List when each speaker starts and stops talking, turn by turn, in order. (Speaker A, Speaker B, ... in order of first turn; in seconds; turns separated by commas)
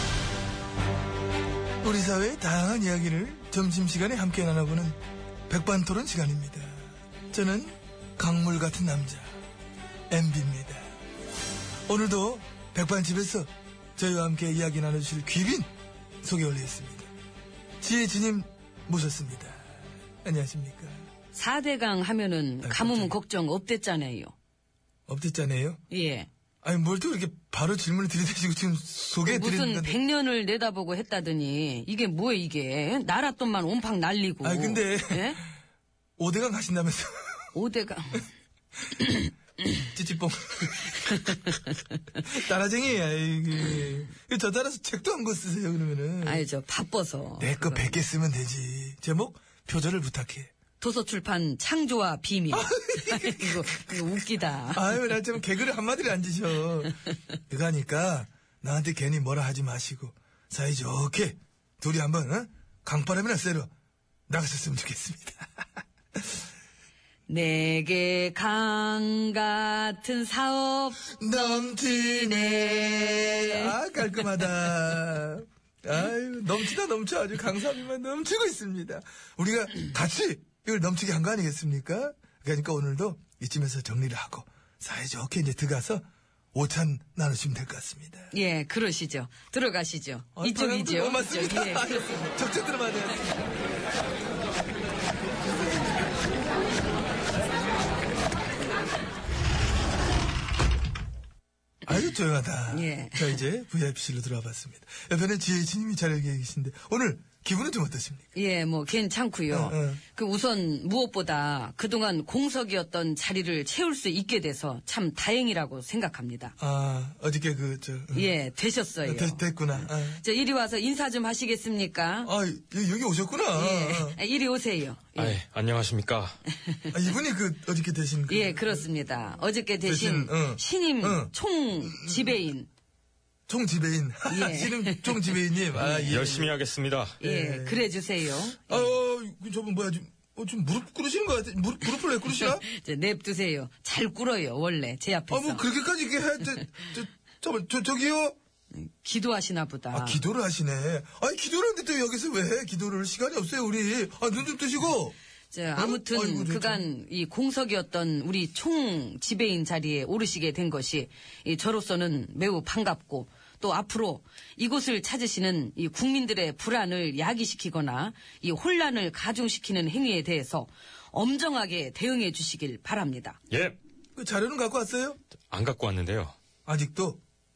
Speaker A: 1.8-5.0, Speaker A: 5.5-9.3, Speaker A: 10.1-10.9, Speaker A: 11.9-15.7, Speaker A: 16.2-17.1, Speaker A: 17.8-19.6, Speaker A: 20.2-21.1, Speaker B: 21.3-24.3, Speaker A: 22.6-23.1, Speaker A: 25.1-25.8, Speaker B: 25.9-26.3, Speaker A: 26.6-30.0, Speaker B: 29.2-35.4, Speaker A: 34.4-35.4, Speaker A: 36.2-37.5, Speaker B: 37.5-38.2, Speaker A: 39.8-41.5, Speaker A: 42.2-46.4, Speaker B: 46.2-48.0, Speaker A: 47.4-50.5, Speaker B: 50.8-54.9, Speaker A: 52.5-54.1, Speaker A: 54.7-57.0, Speaker A: 57.5-63.7, Speaker A: 64.3-65.5, Speaker B: 67.3-73.7, Speaker A: 71.2-88.3, Speaker B: 88.3-92.2, Speaker A: 90.3-93.3, Speaker A: 101.8-108.3, Speaker B: 102.7-103.4, Speaker B: 108.3-116.5, Speaker A: 109.5-110.0, Speaker A: 116.6-118.3, Speaker B: 118.1-122.3, Speaker A: 119.0-120.2, Speaker A: 122.2-124.2, Speaker B: 123.5-125.4, Speaker C: 125.2-126.3, Speaker B: 126.7-126.9, Speaker A: 126.9-128.9, Speaker B: 128.3-132.7, Speaker A: 129.8-132.4, Speaker A: 133.5-136.6, Speaker B: 134.3-136.3, Speaker C: 136.1-137.1, Speaker B: 137.2-138.9, Speaker A: 137.2-137.9, Speaker A: 138.7-142.6, Speaker B: 142.3-145.7, Speaker A: 145.3-148.3, Speaker B: 148.7-150.2, Speaker A: 149.9-155.2, Speaker B: 155.5-173.4, Speaker A: 155.8-156.9, Speaker C: 173.5-173.8, Speaker A: 174.2-175.2, Speaker C: 175.5-176.3, Speaker A: 176.7-177.2